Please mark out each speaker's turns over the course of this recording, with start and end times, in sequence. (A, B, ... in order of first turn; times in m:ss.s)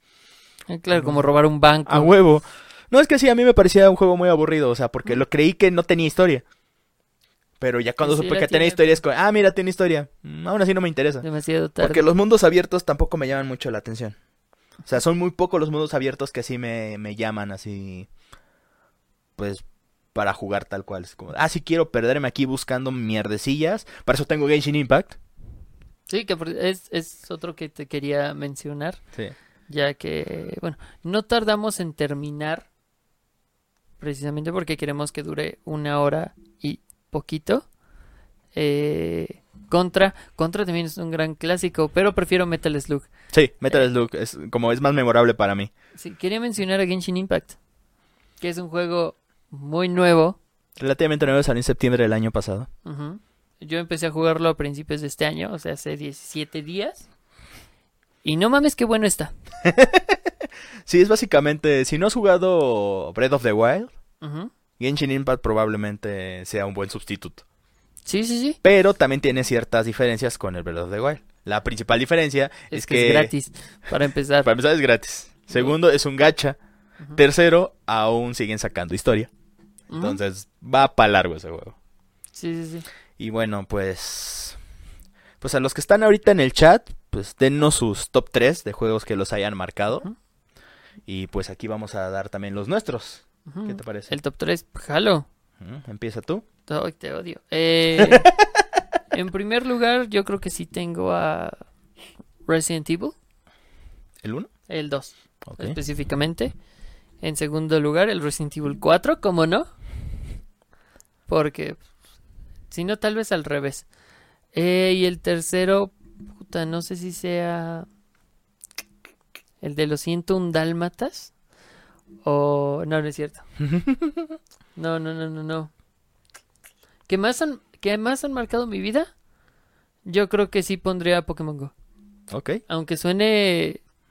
0:00.7-0:02.1 A
0:01.9-0:06.4 B
0:07.6-0:11.2 B
0:08.0-0:08.9 A
0:11.2-0:12.0 A
0:11.8-0:14.2 B
0:14.8-0:18.1 B
0:19.4-0:25.2 B
0:26.1-0:29.0 A
0:29.7-0:32.7 A
0:34.0-0:37.7 A
0:38.5-0:43.1 A
0:43.3-0:45.7 B
0:45.9-0:47.6 A
0:48.4-0:50.4 A
0:50.8-0:52.7 B
0:52.8-0:57.1 A
0:58.2-0:59.3 A
0:59.6-1:00.2 B
1:00.8-1:03.9 B
1:04.2-1:04.5 A
1:04.8-1:07.4 B
1:08.0-1:08.6 A
1:08.6-1:13.3 B
1:12.7-1:14.5 A
1:14.4-1:16.6 B
1:17.2-1:19.3 B
1:19.9-1:20.2 A
1:19.9-1:21.8 B
1:22.3-1:22.8 A
1:23.2-1:24.6 B
1:25.4-1:30.1 B
1:31.0-1:34.2 B
1:33.4-1:35.3 A
1:35.6-1:36.4 B
1:36.7-1:38.3 A
1:38.0-1:38.6 B
1:39.1-1:41.6 A
1:42.4-1:43.1 A
1:44.2-1:44.5 B
1:44.7-1:46.6 A
1:45.4-1:45.8 B
1:47.2-1:49.7 A
1:51.3-1:51.8 A
1:52.7-1:53.9 A
1:54.5-1:57.9 A
1:59.6-2:01.3 A
2:02.2-2:03.5 A
2:03.6-2:04.4 B
2:04.8-2:05.7 A
2:07.1-2:09.1 A
2:10.0-2:11.7 A
2:12.3-2:12.6 B
2:12.7-2:13.8 A